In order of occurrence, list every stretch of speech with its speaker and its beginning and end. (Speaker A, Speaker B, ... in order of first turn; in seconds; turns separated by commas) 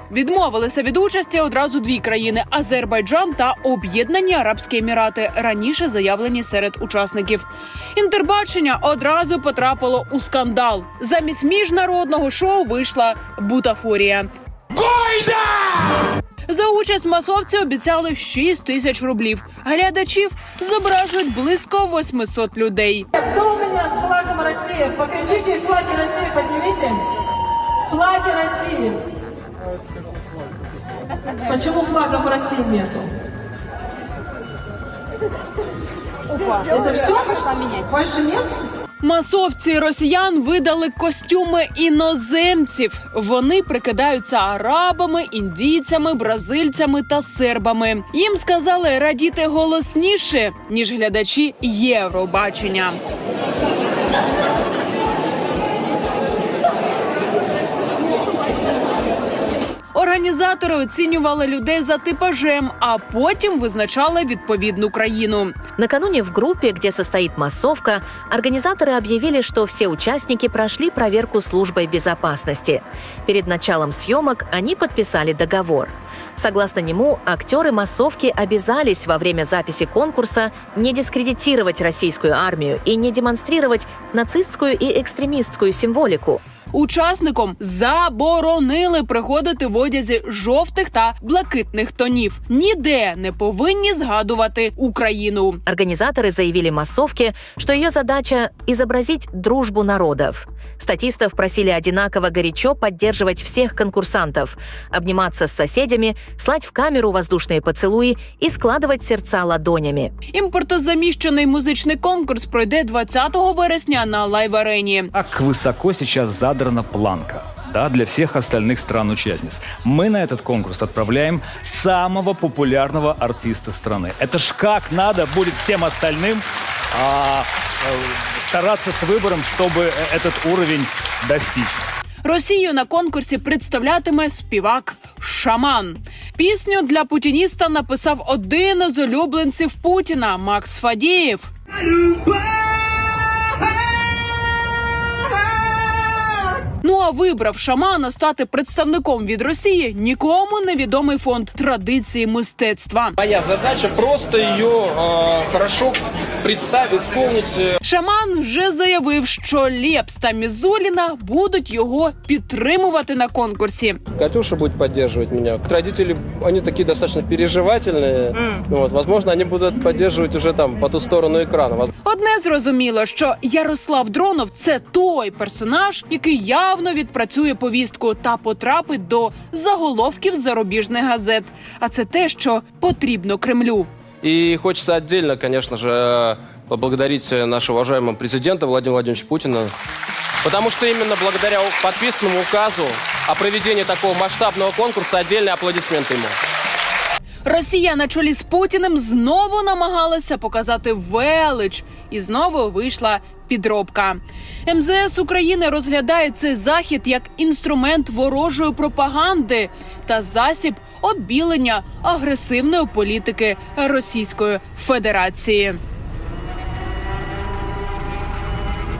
Speaker A: 0.1-14.3, Speaker A: 16.5-23.1, Speaker B: 23.5-27.0, Speaker B: 28.0-29.0, Speaker B: 31.5-32.9, Speaker A: 39.0-53.0, Speaker A: 59.9-65.5, Speaker C: 65.8-86.4, Speaker A: 86.7-95.6, Speaker C: 95.7-110.1, Speaker A: 110.3-115.1, Speaker D: 115.1-131.7, Speaker A: 132.2-141.5, Speaker A: 146.8-153.2, Speaker E: 153.2-157.8, Speaker A: 157.8-164.0, Speaker E: 164.2-171.9, Speaker A: 172.0-183.9, Speaker E: 184.2-189.7, Speaker E: 190.4-196.4, Speaker A: 197.4-215.8